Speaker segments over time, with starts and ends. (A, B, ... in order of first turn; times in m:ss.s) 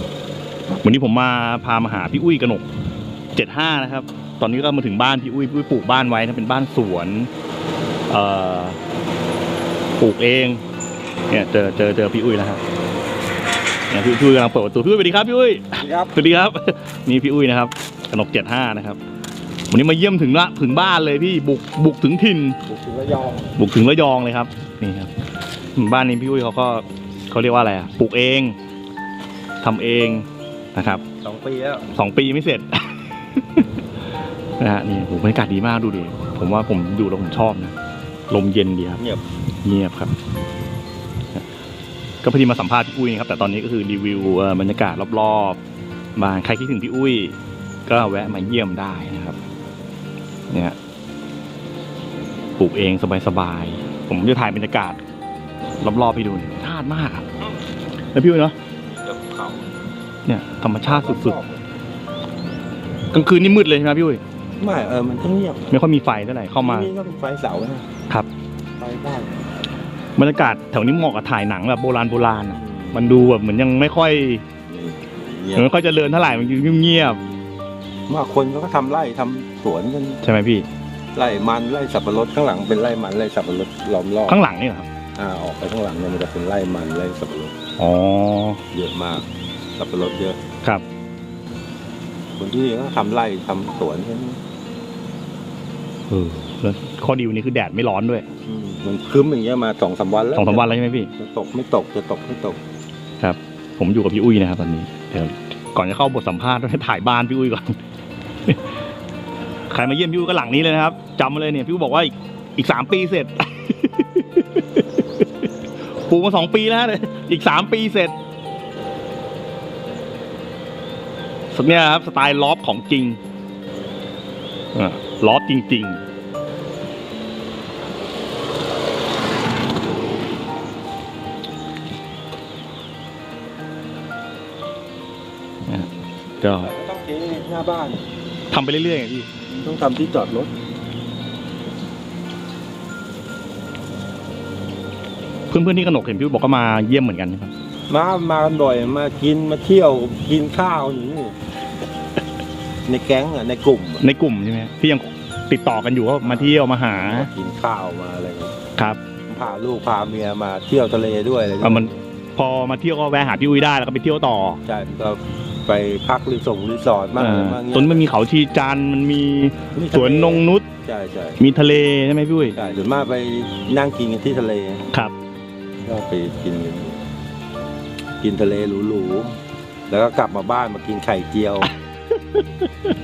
0:00.8-0:02.6 A
0:03.3-0:07.3 A
0:08.1-0:08.8 A
0:10.0-0:10.6 A
0:11.3-0:12.6 A
0:13.9-0:19.0 A
0:15.8-0:16.1 B
0:19.7-0:22.6 A
0:22.7-0:23.6 B
0:23.6-0:25.1 A
0:25.8-0:28.6 A
0:29.6-0:31.0 A
0:31.2-0:31.9 B
0:31.9-0:33.6 A
0:34.6-0:37.7 A
0:38.3-0:39.0 A
0:39.6-0:40.1 A
0:42.2-0:45.6 A
0:46.2-0:47.4 A
0:47.9-0:49.4 A
0:50.5-0:50.8 A
0:52.6-0:55.0 A
0:55.8-0:57.2 A
0:58.1-0:58.5 A
0:58.9-0:59.7 B
1:00.2-1:01.4 A
1:00.8-1:01.6 B
1:03.1-1:04.2 A
1:04.6-1:05.8 B
1:05.7-1:06.9 A
1:06.6-1:07.9 B
1:08.8-1:09.3 B
1:10.2-1:14.4 A
1:12.5-1:13.3 B
1:14.7-1:15.7 B
1:15.5-1:17.2 A
1:18.1-1:20.2 B
1:20.2-1:20.6 A
1:21.1-1:24.4 B
1:24.3-1:24.9 A
1:25.2-1:27.5 B
1:27.8-1:28.6 A
1:28.7-1:29.2 B
1:29.8-1:30.4 B
1:32.4-1:34.4 B
1:36.1-1:38.2 A
1:38.4-1:42.6 B
1:40.4-1:41.1 A
1:43.2-1:47.8 A
1:48.5-1:48.7 A
1:49.7-1:58.1 A
2:01.5-2:03.2 A
2:04.7-2:06.0 A
2:16.4-2:16.7 A
2:16.6-2:18.0 B
2:18.5-2:19.3 A
2:19.5-2:20.5 B
2:25.5-2:27.5 A
2:27.9-2:31.4 B
2:32.9-2:34.0 B
2:34.0-2:37.3 A
2:36.2-2:38.5 B
2:39.3-2:42.0 B
2:41.6-2:44.6 A
2:44.6-2:48.0 B
2:47.2-2:50.6 A
2:49.7-2:51.4 B
2:51.4-2:52.5 A
2:52.5-2:54.8 B
2:55.8-2:57.0 B
2:58.2-2:59.3 B
2:59.9-3:01.7 B
3:02.3-3:02.7 A